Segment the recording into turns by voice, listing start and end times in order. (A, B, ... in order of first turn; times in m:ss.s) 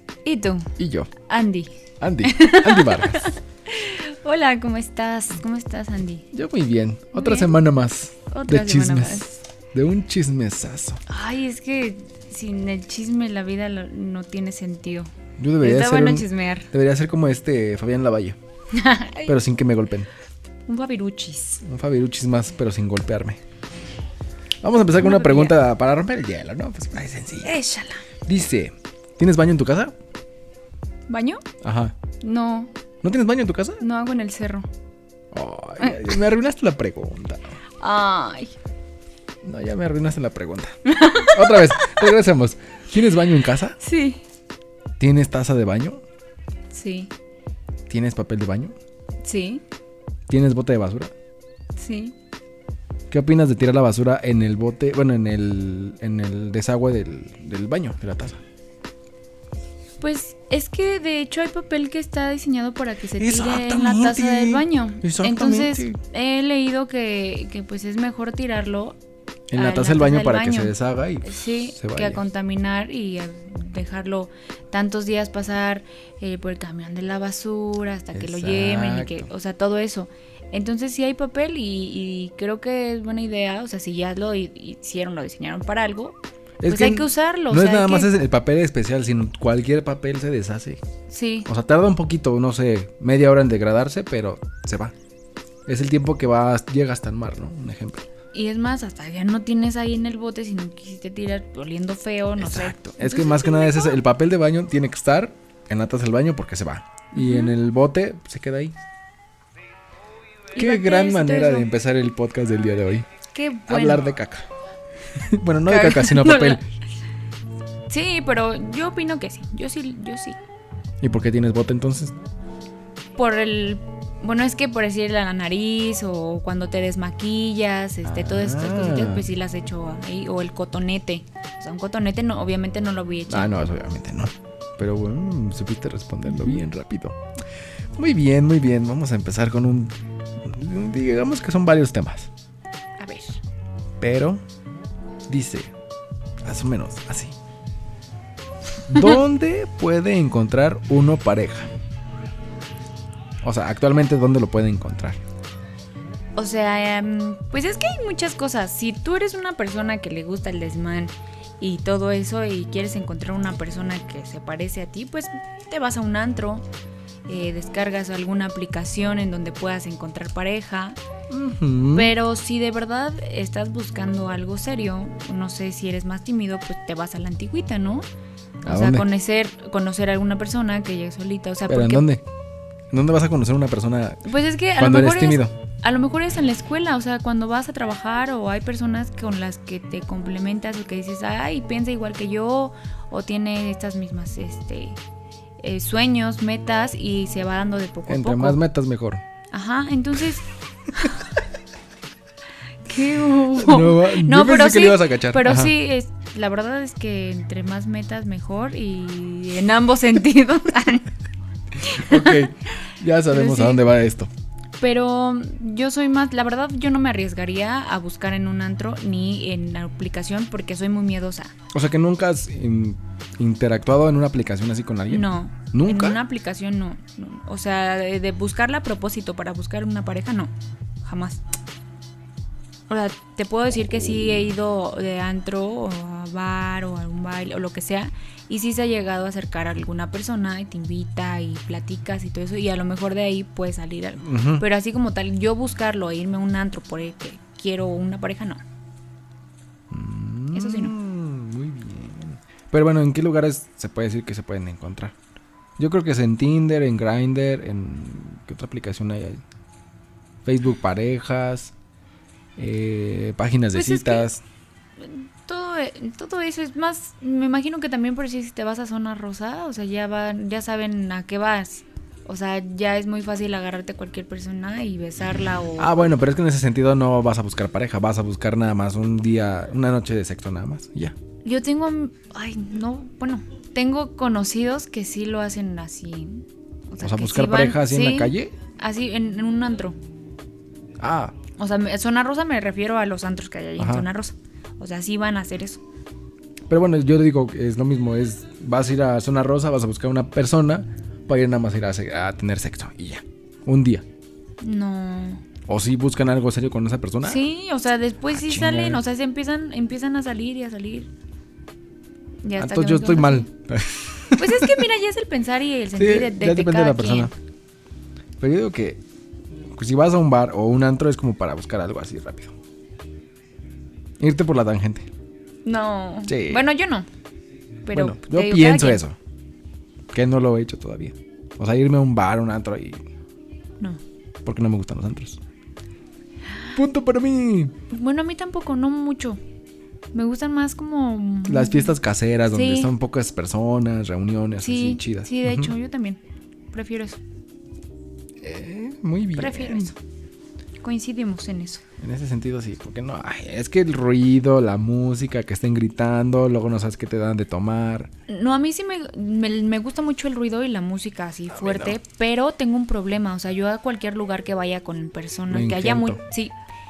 0:00.2-0:06.3 A
0:00.8-0:01.1 B
0:02.0-0:03.3 B
0:06.3-0:11.0 B
0:07.1-0:07.5 A
0:08.3-0:09.4 A
0:11.1-0:16.7 A
0:15.4-0:18.4 B
0:18.7-0:19.3 A
0:19.2-0:20.1 B
0:20.7-0:21.6 A
0:21.6-0:23.4 B
0:24.6-0:27.6 B
0:25.0-0:25.6 A
0:27.4-0:28.1 A
0:28.2-0:29.9 B
0:31.1-0:31.4 A
0:31.6-0:31.9 B
0:32.2-0:32.7 A
0:33.0-0:33.8 B
0:33.8-0:34.7 A
0:35.3-0:37.6 B
0:35.8-0:36.2 A
0:37.8-0:38.5 A
0:39.4-0:43.8 B
0:40.8-0:42.1 A
0:43.8-0:44.2 A
0:45.0-0:46.0 B
0:46.7-0:47.1 A
0:47.9-0:48.8 B
0:49.2-0:49.6 A
0:50.3-0:51.1 B
0:51.8-0:52.1 A
0:53.1-0:58.4 B
1:00.0-1:09.0 A
1:03.2-1:06.0 B
1:09.5-1:12.2 B
1:09.5-1:28.1 A
1:18.1-1:19.3 B
1:26.6-1:30.8 B
1:31.1-1:31.5 A
1:31.5-1:34.9 B
1:35.7-1:38.1 B
1:38.3-1:44.0 A
1:42.4-1:48.7 B
1:47.1-1:47.5 A
1:50.5-1:51.7 A
1:50.6-1:53.0 B
1:53.3-1:54.1 A
1:53.7-1:54.5 B
1:55.2-1:56.6 B
1:55.7-1:56.6 A
1:57.9-2:00.4 A
2:01.0-2:02.1 B
2:03.2-2:13.5 A
2:08.0-2:09.3 B
2:13.3-2:17.2 B
2:16.3-2:16.6 A
2:18.0-2:22.3 B
2:23.0-2:23.4 A
2:24.0-2:24.4 B
2:25.3-2:25.7 B
2:26.4-2:27.4 B
2:28.9-2:31.7 B
2:33.4-2:35.2 B
2:36.4-2:46.6 A
2:47.3-2:51.0 A
2:51.3-2:52.1 B
2:51.9-2:58.0 A
2:58.6-3:02.0 A
2:58.6-2:59.0 B
3:01.7-3:02.2 B
3:02.9-3:05.5 B
3:04.2-3:15.0 A
3:15.6-3:18.6 A
3:18.1-3:19.2 B
3:19.5-3:21.3 A
3:22.8-3:31.1 A
3:23.5-3:25.7 B
3:31.8-3:32.5 A
3:31.8-3:34.3 B
3:33.3-3:33.9 A
3:34.8-3:41.5 A
3:41.7-3:46.2 B
3:45.1-3:50.5 A
3:51.0-3:51.4 A
3:52.9-4:08.6 A
4:04.2-4:04.6 B
4:09.9-4:15.1 B
4:10.5-4:10.9 A
4:15.8-4:19.4 B
4:20.4-4:21.7 B
4:22.6-4:24.4 B
4:23.7-4:24.3 A
4:25.0-4:36.2 A
4:35.8-4:41.2 B
4:41.4-4:50.0 A
4:47.0-4:48.5 B
4:51.0-4:51.4 B
4:51.6-4:55.8 A
4:53.8-4:54.1 B
4:56.7-5:04.0 B
5:04.6-5:05.4 A
5:05.7-5:07.4 B
5:07.2-5:11.1 A
5:08.3-5:09.0 B
5:12.4-5:13.5 A
5:12.6-5:14.8 B
5:14.4-5:17.3 A
5:16.0-5:17.3 B
5:18.4-5:19.0 B
5:19.7-5:22.5 B
5:24.2-5:25.1 B
5:25.6-5:27.1 A
5:26.3-5:26.6 B
5:27.8-5:29.0 A
5:27.9-5:29.2 B
5:30.1-5:33.0 B
5:34.4-5:35.4 B
5:36.7-5:37.7 B
5:37.9-5:39.4 A
5:40.1-5:42.0 A
5:41.5-5:45.7 B
5:42.5-5:42.9 A
5:44.6-5:46.2 A
5:46.7-5:47.2 A
5:48.4-5:49.9 B
5:49.3-5:50.0 A
5:50.8-5:51.8 A
5:52.0-5:58.1 B
5:58.3-6:06.5 A
6:01.5-6:02.0 B
6:05.5-6:06.2 B